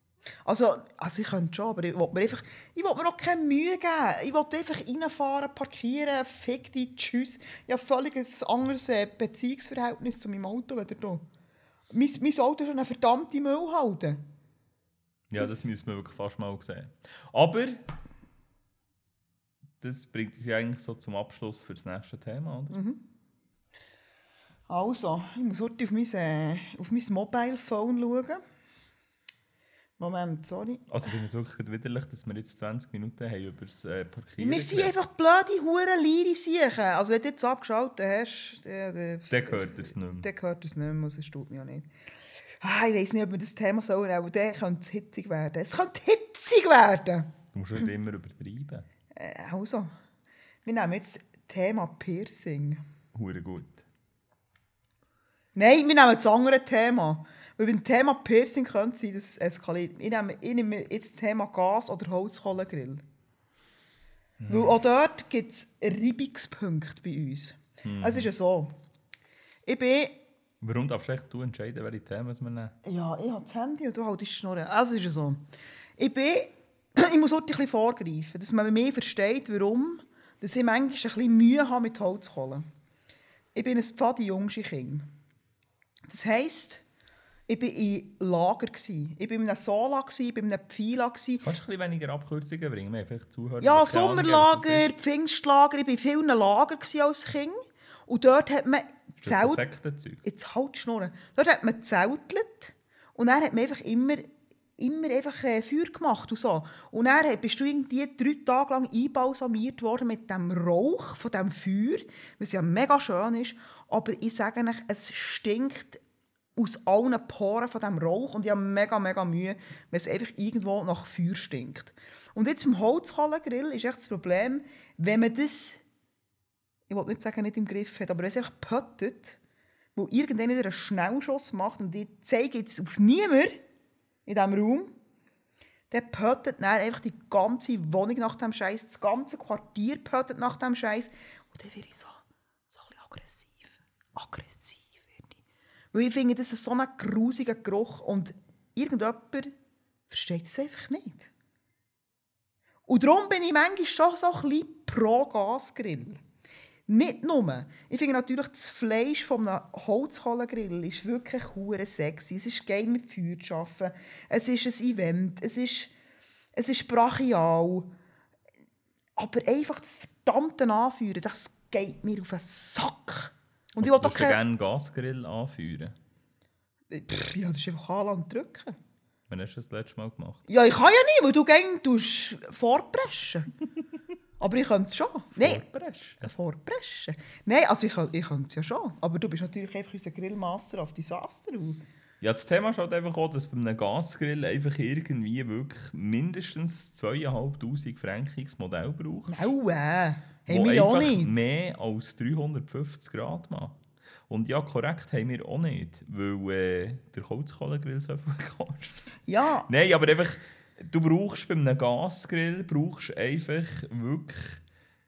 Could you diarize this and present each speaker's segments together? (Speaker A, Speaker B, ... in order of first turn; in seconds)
Speaker A: 0.4-11.2, 11.9-14.2, 15.4-15.6, 22.7-23.0, 24.7-28.4, 30.0-30.9, 34.4-41.9, 42.6-47.3, 49.1-49.9, 50.6-52.8, 55.5-63.0, 64.5-68.7, 69.7-70.2, 72.8-75.4, 76.0-82.6, 83.5-85.1, 86.1-86.8, 87.5-91.5, 93.6-99.6, 100.2-116.0, 116.5-125.8, 126.9-129.4, 129.9-133.5, 134.2-134.9, 135.9-145.2, 145.9-149.5, 150.1-151.3, 152.9-156.2, 156.9-165.9, 166.6-167.9, 169.2-174.4, 176.9-178.8, 180.5-183.5, 184.4-185.6, 186.2-191.8, 199.3-201.3, 209.3-209.7
Speaker B: 15.3-17.8, 19.8-22.8, 30.9-34.9, 39.3-40.3, 47.5-48.9, 53.1-53.8, 64.4-64.8, 67.8-68.3, 70.6-72.7, 91.4-94.9, 99.2-100.2, 173.8-175.9, 179.3-180.4, 185.4-186.3, 192.2-199.5, 200.5-203.8, 204.3-209.0, 209.7-214.6